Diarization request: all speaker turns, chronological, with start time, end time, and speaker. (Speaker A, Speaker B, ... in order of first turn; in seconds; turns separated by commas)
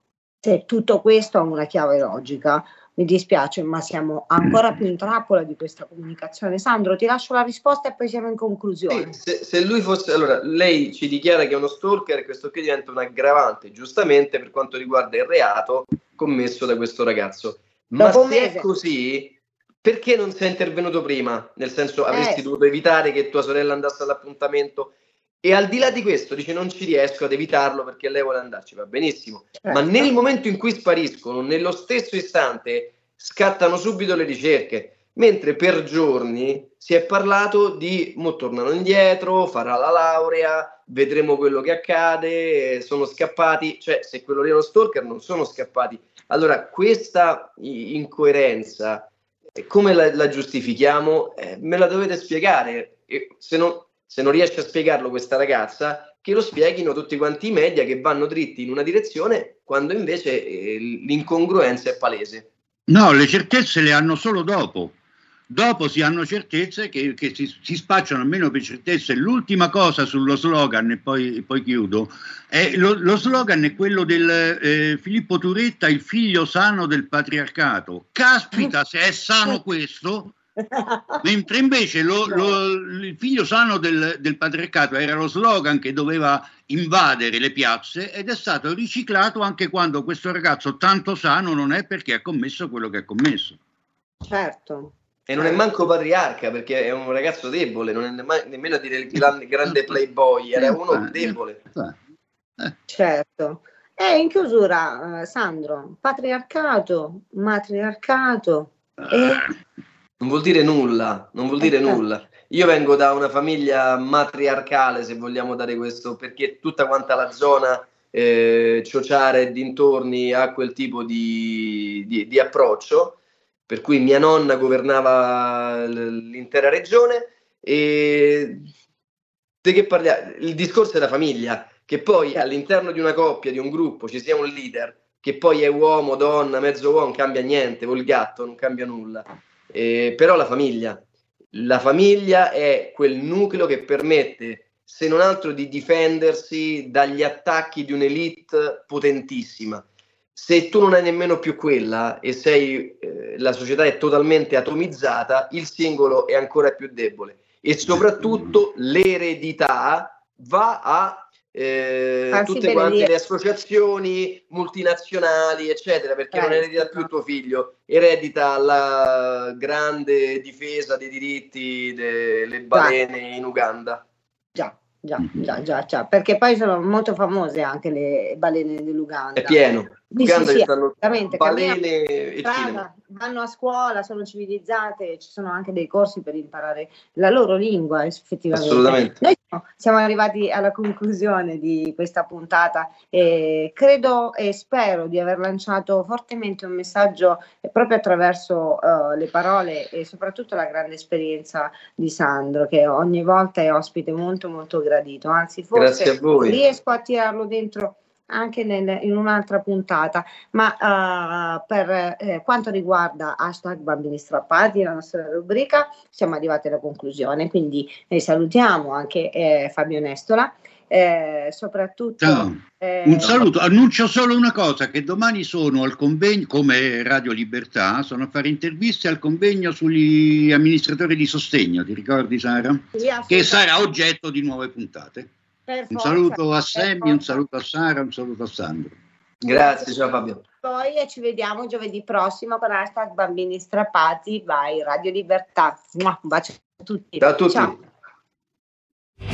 Speaker A: 0.4-9.1, Speaker B: 8.9-62.5, Speaker A: 18.0-18.6, Speaker A: 22.1-22.4, Speaker A: 29.5-30.1, Speaker C: 62.9-64.9, Speaker C: 65.5-80.3, Speaker A: 80.7-81.2, Speaker C: 81.2-93.6, Speaker A: 94.2-95.6, Speaker B: 95.3-101.6, Speaker C: 100.6-102.0, Speaker A: 102.9-109.5, Speaker B: 110.2-123.2, Speaker A: 111.6-112.0, Speaker B: 123.7-128.7, Speaker B: 129.6-141.0, Speaker B: 141.5-149.8, Speaker B: 150.3-174.0, Speaker C: 158.2-158.5, Speaker A: 162.3-163.1, Speaker A: 166.3-167.1, Speaker A: 174.5-181.8, Speaker B: 179.4-182.9, Speaker A: 182.4-223.5, Speaker B: 188.5-189.2, Speaker B: 205.7-206.6, Speaker C: 222.2-235.3, Speaker A: 232.9-233.6, Speaker A: 235.7-237.2, Speaker C: 235.9-238.9, Speaker B: 239.4-240.4, Speaker A: 239.5-247.8, Speaker B: 247.2-247.8